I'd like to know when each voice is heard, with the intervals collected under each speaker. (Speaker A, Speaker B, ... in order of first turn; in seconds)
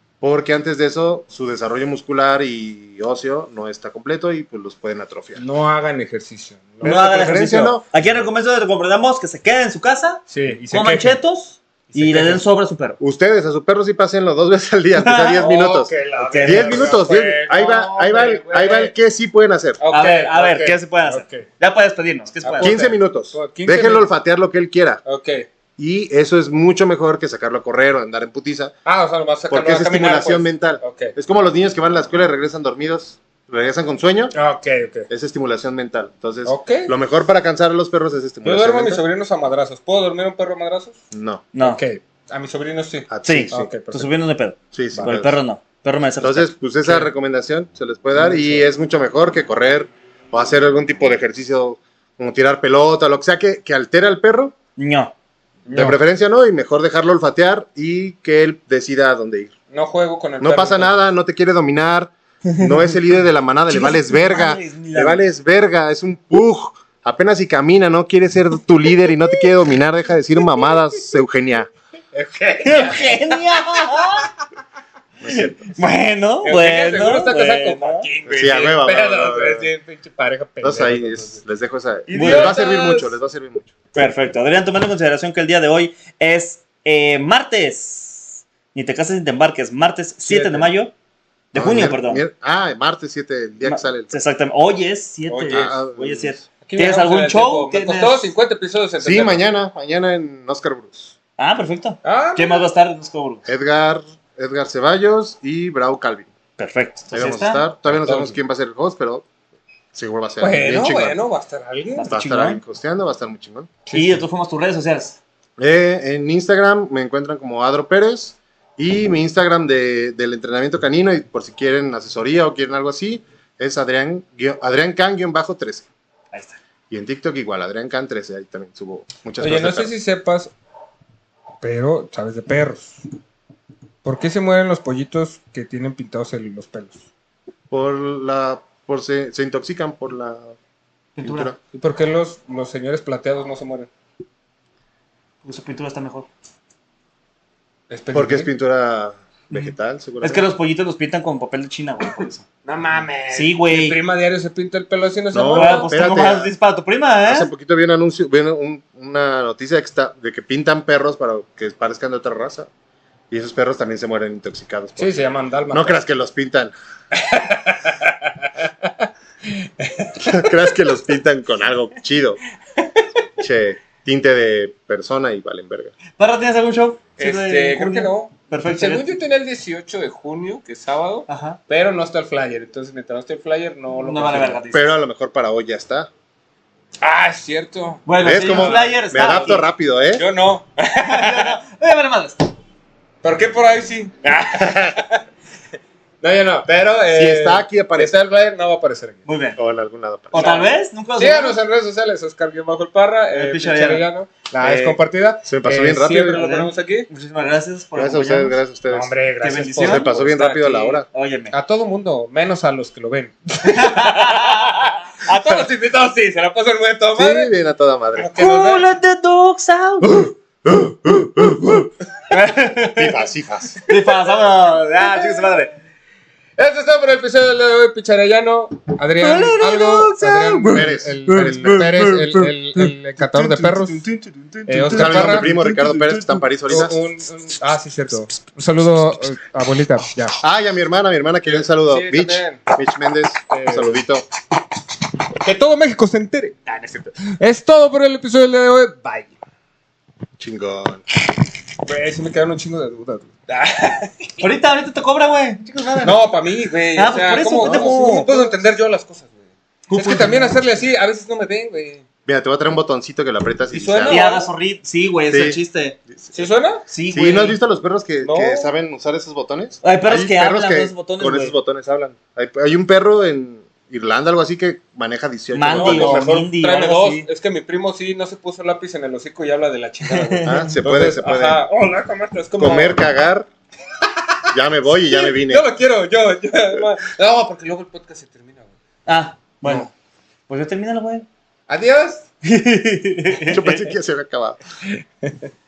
Speaker A: 0.2-5.4, 6.9-7.8, 13.0-15.9, 16.4-19.8, 22.6-25.0, 25.8-28.8, 29.5-34.3, 35.1-39.0, 41.1-41.5, 43.1-43.7, 44.7-45.4, 46.2-54.6, 55.7-59.5, 60.4-71.7, 75.2-75.7, 78.3-79.7, 80.6-83.8, 91.5-94.1, 95.5-96.4, 99.0-101.1, 103.5-106.3, 107.1-109.2, 109.9-111.2, 112.1-113.7, 115.6-125.9, 126.9-129.9, 137.7-140.5, 141.2-141.6, 148.1-150.5, 155.3-156.5, 157.2-162.7, 163.3-165.2, 165.7-166.7, 170.2-172.4, 173.4-175.9, 184.7-186.1, 188.2-190.3, 197.1-198.2, 199.6-200.6, 205.4-206.4, 208.0-209.1, 209.8-211.1, 217.2-218.4, 220.0-221.9, 222.9-223.8, 230.7-231.8, 234.8-237.0, 240.4-244.2, 250.4-251.0, 257.6-257.9, 262.3-264.2, 265.3-266.3, 267.1-276.3, 280.4-281.6, 282.6-283.5, 284.5-285.7, 289.6-289.9, 293.4-294.6
Speaker B: 5.4-7.6, 10.3-11.2, 11.9-12.4, 15.3-18.9, 19.8-21.5, 22.4-24.1, 25.1-25.5, 28.9-31.1, 34.3-35.1, 36.5-36.9, 38.4-41.0, 41.6-44.1, 46.8-47.1, 48.2-48.6, 55.7-56.0, 59.7-61.0, 72.1-74.3, 76.4-81.4, 82.1-83.2, 90.2-90.7, 95.3-95.8, 96.7-99.4, 102.0-102.7, 107.9-108.4, 110.4-112.1, 113.9-114.2, 129.4-130.5, 131.6-133.0, 134.0-137.0, 141.7-143.9, 147.9-148.5, 152.7-156.3, 165.0-166.0, 167.1-170.5, 177.2-184.6, 187.0-189.6, 190.1-191.6, 193.2-195.2, 196.2-199.2, 200.3-207.1, 208.9-217.5, 218.2-218.8, 226.6-234.0, 234.7-235.6, 236.7-240.4, 241.9-242.6, 243.5-244.0, 245.4-249.3, 251.8-254.4, 256.0-259.4, 259.9-262.1, 263.7-264.4, 266.3-266.9, 268.2-268.7, 275.7-283.0, 284.0-284.5, 285.1-288.7, 291.7-292.3
Speaker C: 6.8-13.0, 15.0-15.4, 16.2-17.0, 19.9-22.7, 41.5-41.8, 43.2-46.5, 54.8-55.1, 62.5-62.8, 63.7-65.2, 72.7-74.3, 75.3-78.1, 82.1-82.6, 83.9-90.9, 91.5-92.2, 93.6-98.3, 101.4-103.4, 106.6-107.7, 112.0-112.6, 113.9-115.2, 141.2-141.5, 145.4-146.3, 149.5-152.4, 153.3-154.0, 155.5-157.5, 176.2-179.1, 181.3-181.6, 183.9-184.9, 188.1-189.6, 191.1-192.5, 199.3-199.6, 200.3-201.6, 203.3-204.1, 204.6-205.0, 206.3-208.6, 209.4-210.1, 211.1-211.5, 213.7-214.8, 218.3-220.3, 222.3-223.2, 223.8-225.7, 229.2-232.5, 233.3-236.4, 254.4-256.3, 256.9-258.5, 259.9-260.6, 264.1-266.0, 266.9-267.6, 269.8-271.5, 275.5-277.3, 280.1-280.8, 289.1-289.9, 290.5-291.3, 292.4-293.8